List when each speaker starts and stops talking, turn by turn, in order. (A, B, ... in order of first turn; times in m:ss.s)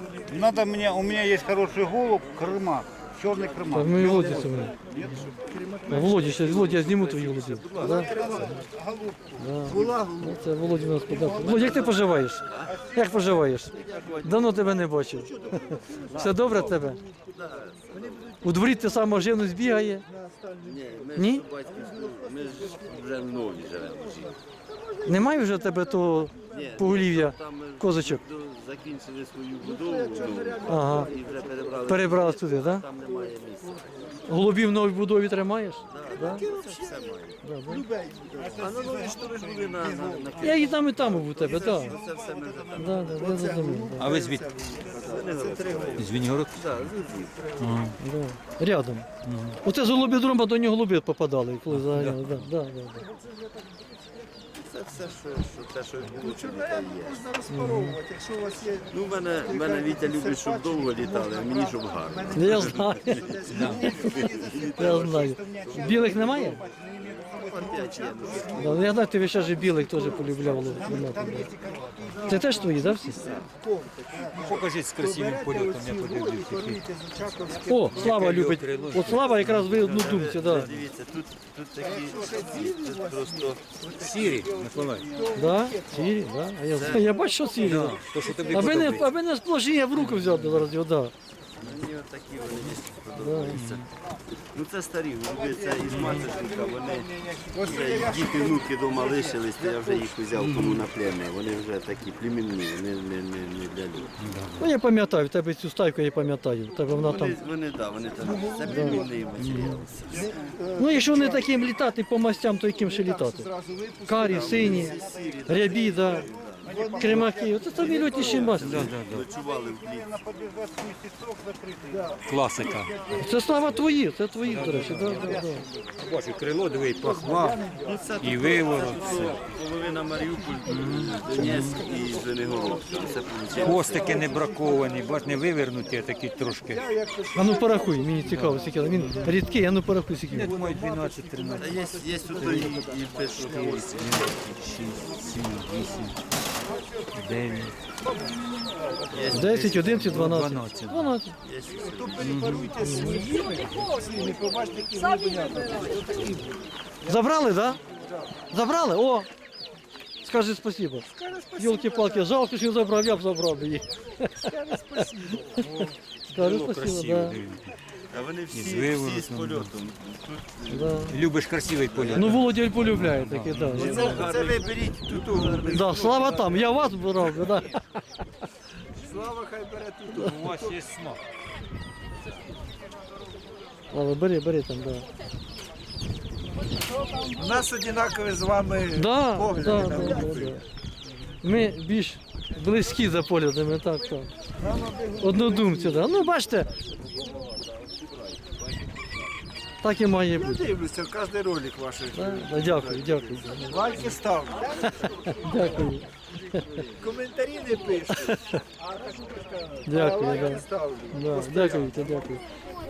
0:00.3-0:05.1 A
0:03.7-0:04.7 B
0:03.9-0:04.2 C
0:04.0-0:05.1 D
0:05.4-0:06.4 C
0:05.9-0:08.1 B
0:05.9-0:08.6 D
0:07.8-0:08.6 C
0:07.8-0:09.4 A
0:09.4-0:17.0 B
0:09.6-0:10.5 C
0:11.1-0:13.0 A
0:11.2-0:11.7 C
0:11.4-0:12.0 D
0:12.5-0:18.4 D
0:15.8-0:16.6 C
0:17.9-0:18.9 C
0:18.4-0:20.0 B
0:19.6-0:22.7 C
0:20.6-0:24.4 D
0:21.1-0:21.4 B
0:24.8-0:25.4 C
0:25.0-0:28.2 B
0:26.5-0:34.5 D
0:29.6-0:31.8 C
0:30.6-0:31.1 B
0:31.9-0:32.8 B
0:34.2-0:36.4 B
0:35.9-0:37.4 D
0:36.0-0:37.1 C
0:37.4-0:37.8 B
0:37.7-0:38.8 C
0:38.4-0:40.9 A
0:38.6-0:43.6 D
0:40.4-0:41.9 B
0:41.2-0:42.1 C
0:41.8-0:42.2 A
0:42.8-0:44.1 B
0:42.8-0:46.1 C
0:44.0-0:44.5 E
0:44.9-0:47.8 D
0:46.0-0:46.9 E
0:47.6-0:47.9 E
0:48.0-0:49.1 B
0:49.2-0:49.6 E
0:49.6-0:53.0 B
0:51.7-0:52.4 E
0:54.6-0:57.2 D
0:56.1-1:04.4 C
0:57.5-0:58.0 B
0:58.9-1:06.4 D
1:02.3-1:03.2 B
1:03.5-1:03.9 E
1:03.6-1:08.3 A
1:03.8-1:04.2 B
1:04.7-1:06.6 B
1:07.4-1:09.0 D
1:07.4-1:11.3 C
1:08.6-1:11.5 B
1:10.2-1:12.6 A
1:12.1-1:18.2 C
1:12.3-1:13.2 B
1:12.8-1:13.4 D
1:14.1-1:14.4 A
1:14.3-1:16.8 E
1:17.7-1:20.7 B
1:17.7-1:19.7 E
1:19.4-1:23.6 D
1:21.8-1:22.3 A
1:21.9-1:26.0 C
1:23.9-1:25.1 E
1:25.4-1:31.1 B
1:26.7-1:27.2 D
1:27.0-1:27.4 C
1:27.6-1:29.1 E
1:28.1-1:28.9 C
1:30.0-1:30.6 E
1:31.6-1:33.9 D
1:33.2-1:33.6 B
1:33.5-1:33.8 E
1:34.4-1:44.3 D
1:35.9-1:36.3 E
1:37.4-1:39.0 C
1:40.4-1:40.8 E
1:44.2-1:44.6 E
1:44.6-1:47.4 B
1:46.9-1:50.4 D
1:48.2-1:49.2 C
1:48.7-1:49.0 B
1:49.4-1:49.8 E
1:50.1-1:50.5 A
1:50.1-1:51.7 C
1:50.8-1:53.5 B
1:52.8-1:55.0 C
1:54.1-1:54.9 B
1:54.2-1:57.0 D
1:55.1-1:55.6 A
1:55.4-1:56.2 B
1:55.8-1:58.4 C
1:56.6-2:02.2 A
1:57.0-1:58.9 B
1:57.8-2:00.1 D
1:58.6-1:59.2 E
2:01.9-2:02.2 C
2:02.3-2:02.9 E
2:03.1-2:05.6 B
2:04.4-2:05.4 E
2:04.9-2:05.7 A
2:06.0-2:07.6 E
2:07.0-2:09.1 C
2:07.8-2:14.4 D
2:08.2-2:09.4 E
2:10.6-2:11.8 E
2:13.5-2:15.1 C
2:13.6-2:16.8 E
2:16.7-2:18.2 C
2:17.3-2:20.5 B
2:18.2-2:19.4 E
2:20.2-2:21.8 E
2:20.3-2:23.9 C
2:21.6-2:24.6 D
2:23.9-2:26.2 E
2:27.1-2:27.8 E
2:29.1-2:30.2 D
2:29.3-2:31.1 E
2:29.3-2:31.3 B
2:31.4-2:32.4 D
2:31.7-2:38.3 C
2:32.2-2:32.7 E
2:32.8-2:33.2 B
2:37.0-2:37.8 B
2:38.5-2:39.3 B
2:40.2-2:44.5 B
2:41.0-2:42.3 C
2:44.4-2:45.7 C
2:45.8-2:47.7 E
2:46.3-2:47.4 B
2:48.1-2:51.0 D
2:48.5-2:49.7 E
2:50.7-2:51.2 B
2:51.1-2:54.1 E
2:51.9-2:52.4 D
2:52.1-2:54.2 B
2:53.7-2:56.9 D
2:53.7-2:56.1 C
2:55.7-2:57.8 B
2:59.0-3:00.8 C
3:00.1-3:01.2 E
3:03.9-3:05.0 B
3:07.3-3:10.6 C
3:08.9-3:10.6 B
3:11.4-3:14.3 B
3:14.6-3:16.3 C
3:15.2-3:16.7 B
3:19.8-3:20.6 B
3:20.3-3:25.8 C
3:22.1-3:24.1 B
3:25.0-3:26.7 B
3:27.0-3:28.5 C
3:28.3-3:28.6 B
3:29.8-3:32.2 C
3:29.8-3:32.4 B